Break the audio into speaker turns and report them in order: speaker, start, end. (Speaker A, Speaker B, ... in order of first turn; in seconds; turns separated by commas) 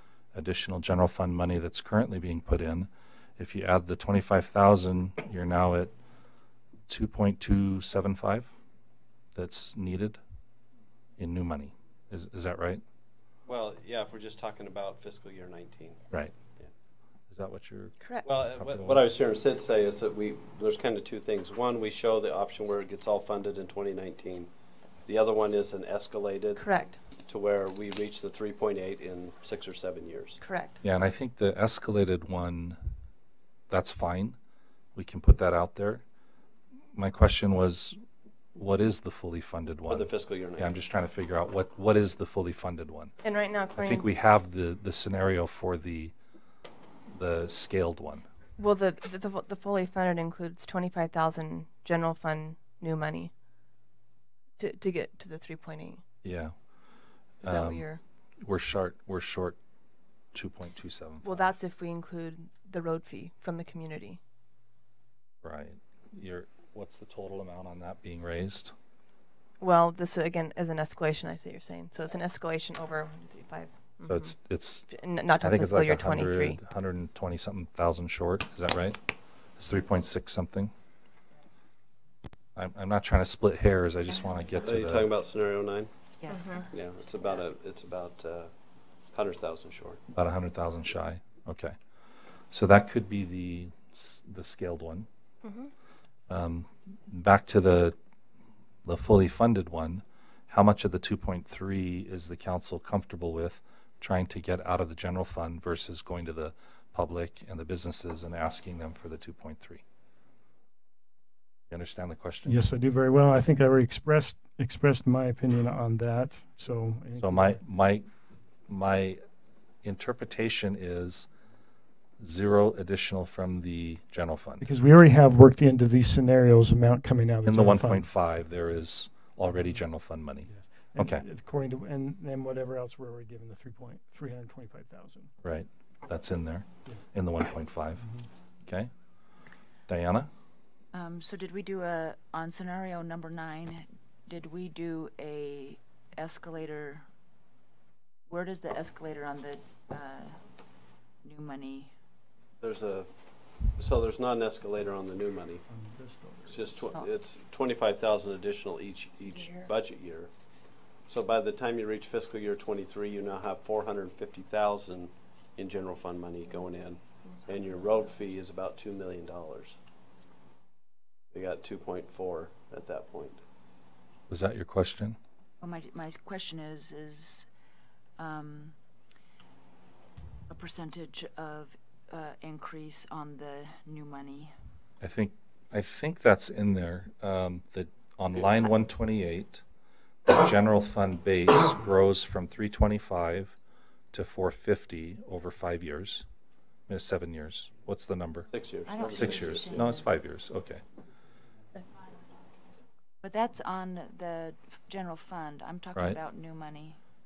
Speaker A: 0.3-5.9, Speaker A: 6.9-8.5, Speaker A: 9.3-10.2, Speaker A: 11.2-12.8, Speaker B: 13.5-16.0, Speaker A: 17.3-19.0, Speaker C: 18.0-18.2, Speaker B: 18.2-24.5, Speaker B: 25.1-26.6, Speaker C: 26.6-27.0, Speaker B: 27.3-30.4, Speaker C: 30.4-30.8, Speaker A: 30.8-32.8, Speaker A: 33.7-34.4, Speaker A: 35.0-36.0, Speaker A: 37.0-38.0, Speaker A: 38.5-43.1, Speaker B: 39.9-40.8, Speaker C: 43.2-44.1, Speaker A: 43.8-46.1, Speaker A: 47.1-48.2, Speaker C: 48.6-53.3, Speaker C: 54.6-56.0, Speaker A: 56.2-56.5, Speaker A: 57.4-57.9, Speaker C: 57.4-58.0, Speaker A: 58.4-59.6, Speaker A: 60.3-61.5, Speaker C: 61.2-64.2, Speaker A: 65.4-68.7, Speaker C: 69.6-74.3, Speaker A: 74.1-79.0, Speaker C: 74.9-76.6, Speaker A: 79.6-80.7, Speaker A: 82.5-85.1, Speaker B: 84.6-85.9, Speaker D: 86.2-86.7, Speaker C: 86.3-86.7, Speaker B: 86.7-88.5, Speaker B: 89.1-90.0, Speaker A: 90.1-91.8, Speaker A: 92.5-95.1, Speaker C: 95.4-95.7, Speaker A: 96.3-97.9, Speaker A: 98.8-109.8, Speaker A: 111.7-112.7, Speaker E: 112.4-117.6, Speaker A: 117.2-118.1, Speaker A: 118.7-119.2, Speaker A: 119.8-121.3, Speaker A: 122.2-124.7, Speaker E: 124.6-128.3, Speaker A: 127.4-131.2, Speaker E: 129.5-135.3, Speaker A: 135.4-138.0, Speaker E: 138.0-138.2, Speaker A: 139.9-140.3, Speaker D: 140.9-147.1, Speaker D: 148.3-150.3, Speaker D: 151.2-151.9, Speaker B: 152.6-153.1, Speaker B: 153.8-155.6, Speaker E: 155.7-156.8, Speaker B: 156.4-160.3, Speaker C: 159.3-159.7, Speaker B: 161.1-169.8, Speaker C: 167.2-168.1, Speaker B: 171.3-173.4, Speaker A: 174.3-175.2, Speaker D: 175.6-177.5, Speaker D: 178.2-178.8, Speaker D: 180.5-184.5, Speaker A: 185.0-189.6, Speaker A: 190.2-193.5, Speaker A: 194.1-196.2, Speaker A: 196.9-200.8, Speaker B: 198.5-199.8, Speaker D: 198.8-200.2, Speaker D: 203.2-207.0